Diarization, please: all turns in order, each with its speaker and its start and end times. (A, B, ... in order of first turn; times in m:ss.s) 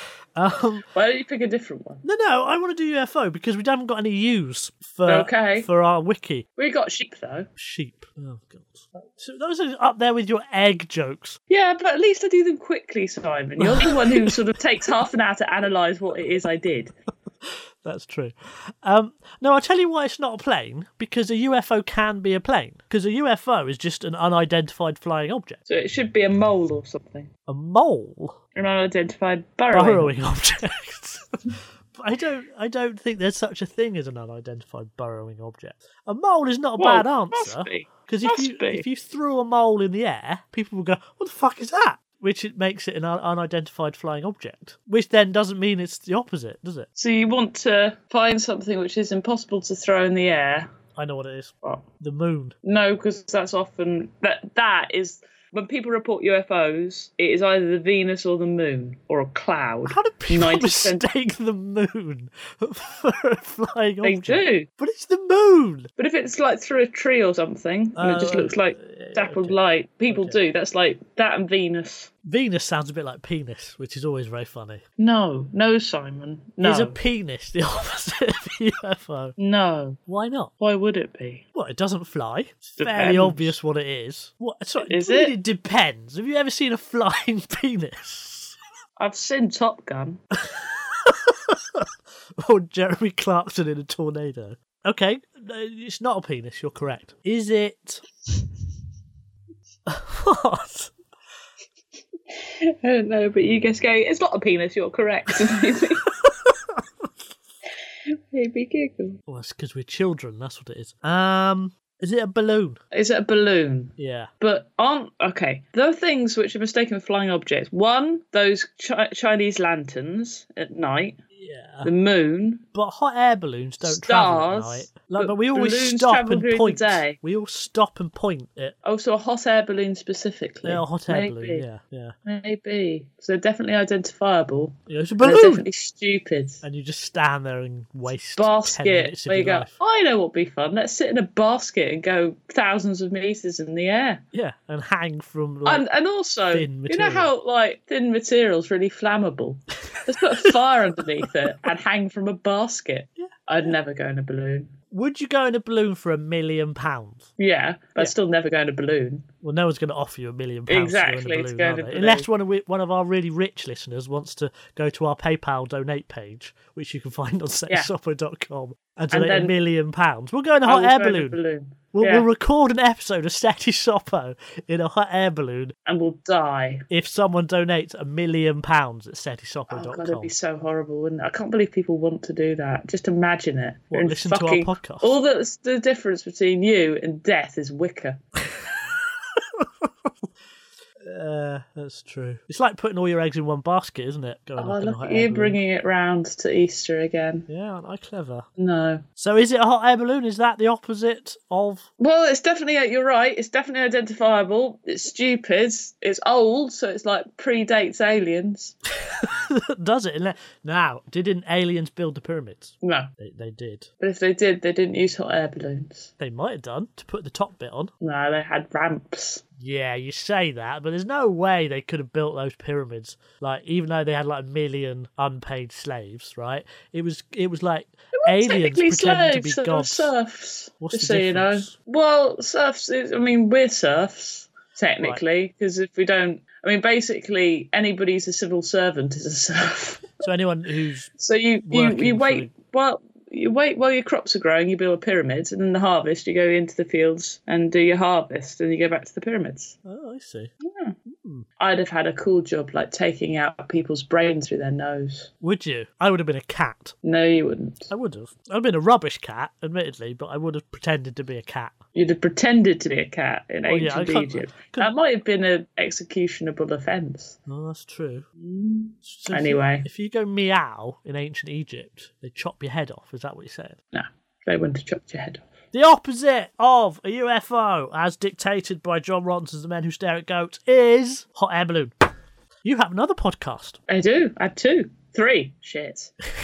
0:00.4-0:00.8 A
0:00.9-0:02.0 B
0:02.0-0:06.4 A
0:05.0-0:05.7 B
0:06.6-0:07.5 B
0:07.6-0:11.4 A
0:11.5-0:16.9 B
0:13.6-0:14.3 A
0:17.4-0:25.6 A
0:25.7-0:27.3 B
0:27.5-0:28.4 A
0:28.6-0:30.1 B
0:29.7-0:46.9 A
0:36.8-0:38.8 B
0:47.0-0:50.7 B
0:51.0-0:52.5 A
0:52.6-1:01.0 B
0:59.8-1:05.9 A
1:04.0-1:04.7 B
1:06.0-1:12.1 B
1:08.0-1:10.4 A
1:12.2-1:14.8 A
1:15.0-1:17.0 B
1:16.6-1:19.4 A
1:19.4-1:20.0 B
1:20.1-1:20.5 A
1:20.6-1:21.4 B
1:21.5-1:28.5 A
1:22.8-1:23.5 B
1:24.8-1:25.3 B
1:29.0-1:30.2 B
1:30.5-1:31.8 A
1:32.4-1:38.0 A
1:39.9-1:40.9 A
1:42.8-1:46.1 B
1:48.3-1:49.2 B
1:49.3-1:52.8 A
1:52.9-2:01.2 B
1:54.0-1:54.3 A
2:01.4-2:01.9 A
2:01.8-2:02.6 B
2:02.7-2:08.8 A
2:03.8-2:07.2 B
2:08.8-2:11.6 B
2:10.6-2:12.2 A
2:12.2-2:16.6 B
2:14.9-2:15.6 A
2:16.6-2:19.8 A
2:18.3-2:24.2 B
2:24.3-2:25.8 A
2:25.6-2:34.7 B
2:26.5-2:27.3 A
2:34.9-2:37.3 A
2:37.4-2:39.3 B
2:39.4-2:51.4 A
2:40.7-2:42.3 B
2:49.1-2:49.5 B
2:50.6-2:52.3 B
2:51.9-2:55.7 A
2:55.8-2:56.9 B
2:56.9-3:00.3 A
2:59.7-3:08.2 B
3:03.9-3:05.2 A
3:09.6-3:09.9 A
3:11.0-3:15.6 A
3:14.6-3:17.5 B
3:17.5-3:18.4 A
3:18.6-3:19.0 B
3:19.2-3:21.9 A
3:22.0-3:28.8 B
3:29.1-3:33.9 A
3:32.8-3:33.1 B
3:34.0-3:36.1 B
3:36.2-3:37.9 A
3:38.0-3:39.4 B
3:39.6-3:50.1 A
3:48.2-4:00.2 B
3:50.8-3:51.7 A
4:00.2-4:01.1 A
4:01.2-4:09.7 B
4:01.6-4:02.5 A
4:09.8-4:10.5 A
4:10.6-4:10.9 B
4:11.1-4:11.5 A
4:11.6-4:15.3 B
4:15.4-4:17.0 A
4:17.0-4:17.9 B
4:17.9-4:21.8 A
4:21.9-4:27.4 B
4:23.6-4:24.9 A
4:27.5-4:28.3 A
4:28.4-4:29.8 B
4:29.0-4:33.8 A
4:33.9-4:35.5 B
4:35.7-4:41.9 A
4:42.6-4:43.8 A
4:43.9-4:46.1 B